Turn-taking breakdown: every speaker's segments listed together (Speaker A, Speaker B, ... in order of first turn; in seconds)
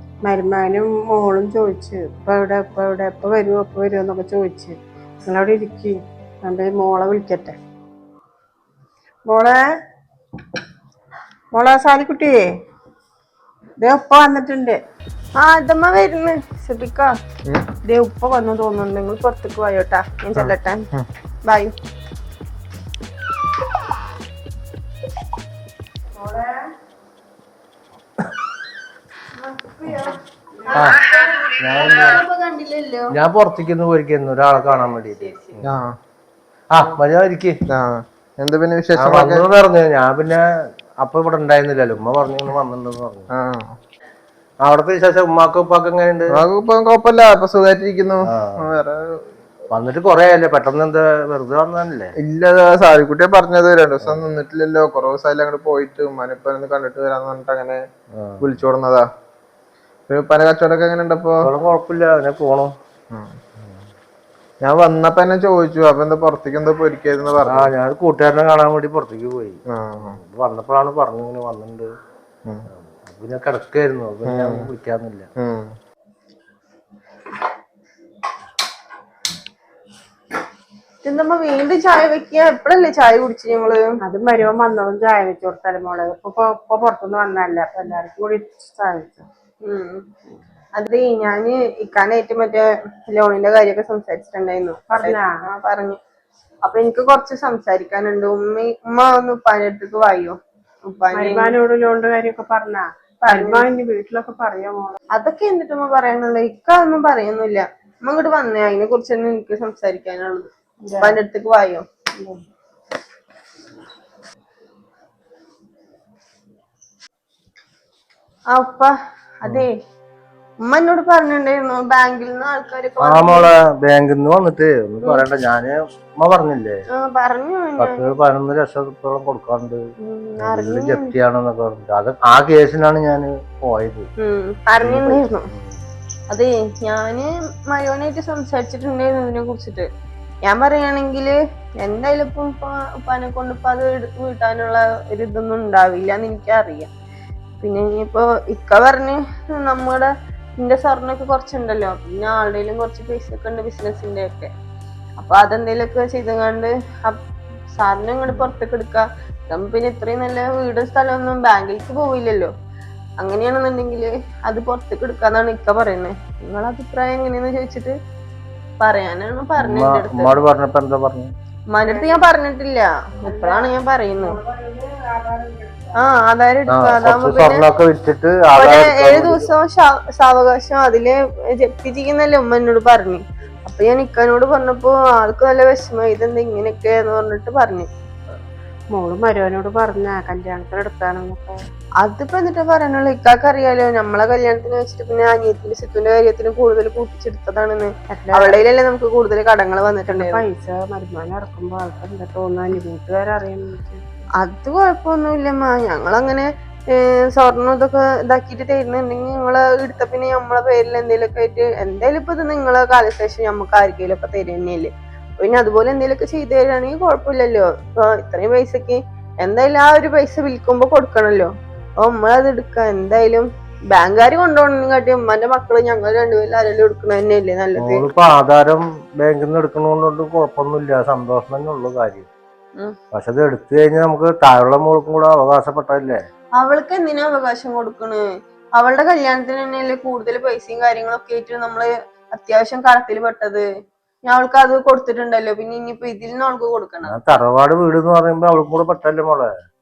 Speaker A: 0.2-7.6, 9.3-9.7, 11.5-12.5, 13.8-14.8, 26.2-26.7, 84.0-89.3, 94.9-95.5, 101.1-105.0, 110.8-111.2, 171.8-172.2, 173.2-176.0, 188.9-191.6, 198.1-198.6, 200.1-204.0
Speaker B: 15.4-17.1, 17.8-20.9, 21.4-21.7, 29.4-30.1, 30.7-33.1, 34.5-35.5, 81.0-83.8, 89.6-90.0, 90.8-96.0, 96.6-101.5, 103.2-103.7, 105.1-111.8, 118.5-119.8, 120.6-123.5, 126.9-128.0, 130.0-131.1, 134.2-135.4, 136.3-139.9, 140.4-146.9, 147.6-154.5, 155.2-162.5, 163.2-167.9, 168.8-170.3, 171.7-174.3, 176.0-177.6, 178.6-187.9, 192.0-200.4, 204.4-228.0, 236.6-238.2, 238.8-243.7, 244.3-247.1
Speaker C: 20.3-21.1, 35.6-36.0, 37.7-39.4, 43.3-43.8, 46.3-49.2, 52.2-57.8, 58.4-59.1, 60.1-61.5, 63.1-63.4, 64.6-67.7, 69.7-70.2, 74.3-74.7, 75.4-75.7
Speaker D: 30.7-31.0, 31.6-32.2, 33.1-35.8, 36.7-37.6, 39.0-40.4, 41.0-43.3, 44.6-46.4, 48.2-48.6, 49.7-52.1, 58.1-58.5, 61.4-62.7, 67.5-71.9, 72.7-75.3, 123.0-126.8, 127.8-129.8, 130.4-134.1, 134.8-135.8, 169.6-171.3, 176.7-179.5, 227.8-232.3, 233.1-236.2, 247.0-249.5